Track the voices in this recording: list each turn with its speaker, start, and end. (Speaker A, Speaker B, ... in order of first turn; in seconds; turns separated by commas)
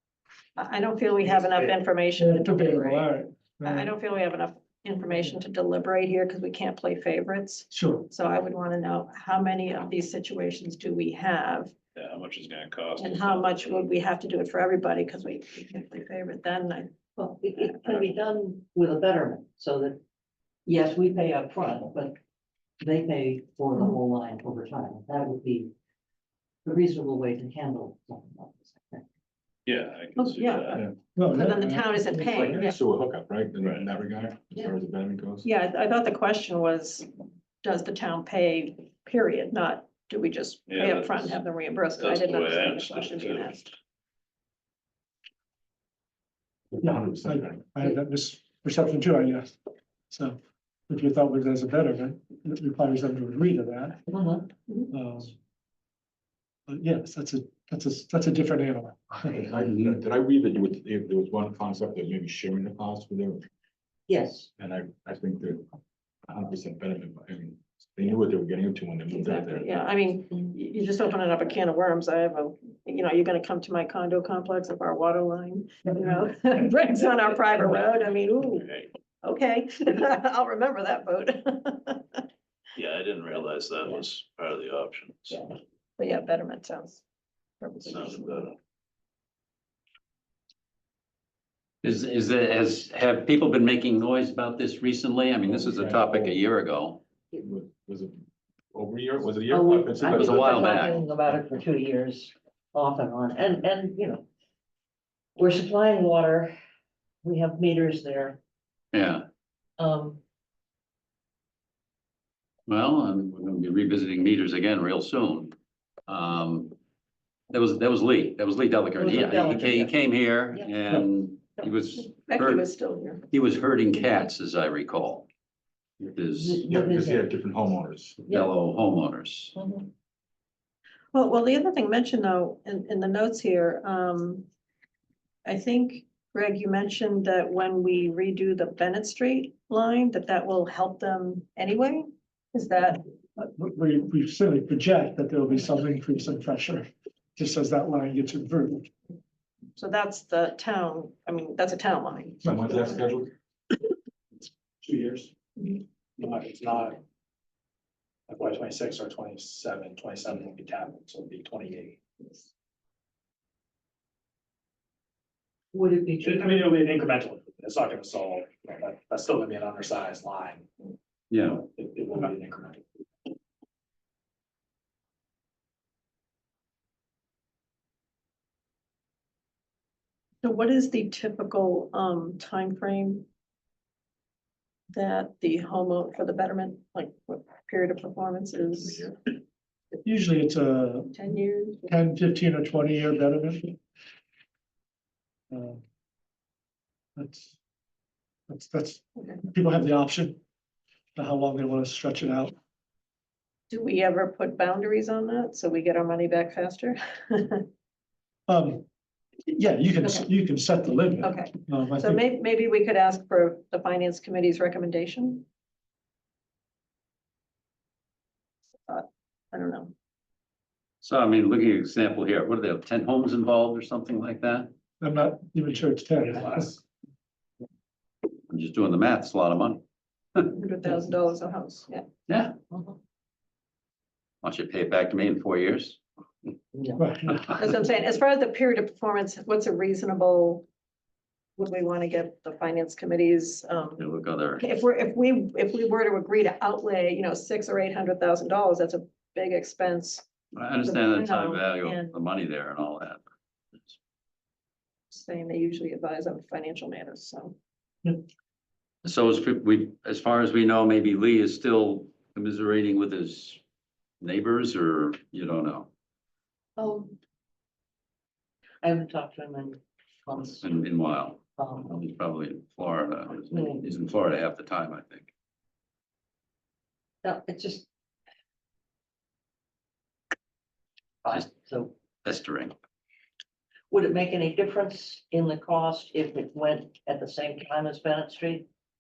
Speaker A: 0.6-3.0, Speaker B: 2.2-3.9, Speaker A: 3.6-11.7, Speaker B: 7.7-8.1, Speaker C: 11.9-13.9, Speaker A: 13.0-18.1, Speaker D: 17.2-20.0, Speaker D: 20.7-22.2, Speaker D: 22.8-25.7, Speaker D: 26.6-29.0, Speaker C: 29.7-30.8, Speaker A: 30.2-32.6, Speaker B: 31.2-32.4, Speaker E: 32.2-35.5, Speaker C: 33.6-33.9, Speaker A: 35.4-37.1, Speaker A: 37.6-43.7, Speaker C: 40.7-41.4, Speaker C: 42.0-43.5, Speaker E: 46.8-47.6, Speaker B: 46.8-49.6, Speaker B: 50.1-54.0, Speaker D: 54.1-54.5, Speaker B: 54.9-55.4, Speaker B: 56.7-59.4, Speaker E: 59.3-63.5, Speaker D: 64.1-64.5, Speaker E: 64.6-65.7, Speaker E: 66.3-69.7, Speaker A: 69.1-82.2, Speaker C: 78.6-78.9, Speaker C: 82.8-85.4, Speaker A: 86.0-87.0, Speaker A: 87.6-88.5, Speaker C: 87.8-88.6, Speaker F: 91.8-97.0, Speaker E: 95.4-96.4, Speaker E: 97.3-100.8, Speaker D: 99.5-104.3, Speaker F: 100.1-101.0, Speaker D: 105.4-106.6, Speaker D: 107.2-108.4, Speaker F: 108.9-109.3, Speaker D: 109.8-110.2, Speaker F: 112.7-115.5, Speaker F: 116.1-116.8, Speaker F: 117.5-122.7, Speaker D: 119.0-119.9, Speaker A: 122.0-123.3, Speaker F: 123.3-125.3, Speaker F: 126.2-126.7, Speaker D: 126.4-127.2, Speaker E: 126.7-128.2, Speaker F: 128.3-129.5, Speaker D: 129.6-129.9, Speaker A: 131.1-134.5, Speaker A: 135.4-143.0, Speaker B: 143.4-148.9, Speaker A: 149.8-153.1, Speaker E: 152.4-153.3, Speaker G: 154.8-155.3, Speaker G: 156.2-157.0, Speaker G: 158.3-162.0, Speaker D: 165.7-166.7, Speaker G: 166.2-170.7, Speaker F: 171.3-171.6, Speaker G: 171.6-172.8, Speaker A: 180.4-183.3, Speaker A: 184.9-189.1, Speaker B: 190.0-191.2, Speaker A: 191.1-191.9, Speaker B: 191.9-193.8, Speaker B: 195.5-195.8, Speaker B: 197.2-197.6, Speaker B: 198.5-200.4, Speaker B: 201.2-202.5, Speaker A: 203.7-207.7, Speaker B: 208.5-208.8, Speaker B: 209.5-212.2, Speaker A: 211.2-215.5, Speaker A: 218.9-219.9, Speaker F: 221.0-224.7, Speaker B: 225.0-226.7, Speaker G: 226.2-226.8, Speaker F: 228.5-229.8, Speaker A: 230.5-232.1, Speaker F: 232.3-232.5, Speaker D: 232.7-233.0, Speaker F: 234.4-236.0, Speaker D: 236.7-237.0, Speaker B: 237.0-237.6, Speaker A: 237.6-240.7, Speaker A: 241.6-244.1, Speaker F: 244.0-244.6, Speaker A: 244.6-250.2, Speaker F: 250.5-253.2, Speaker A: 250.8-252.2, Speaker A: 255.1-257.6, Speaker F: 259.0-263.6, Speaker F: 264.2-265.9, Speaker D: 266.8-267.2, Speaker D: 268.8-270.7, Speaker F: 270.6-275.3, Speaker D: 271.6-272.0, Speaker D: 273.5-273.8, Speaker D: 277.2-277.9, Speaker D: 281.2-281.9, Speaker F: 282.2-282.7, Speaker D: 283.9-288.7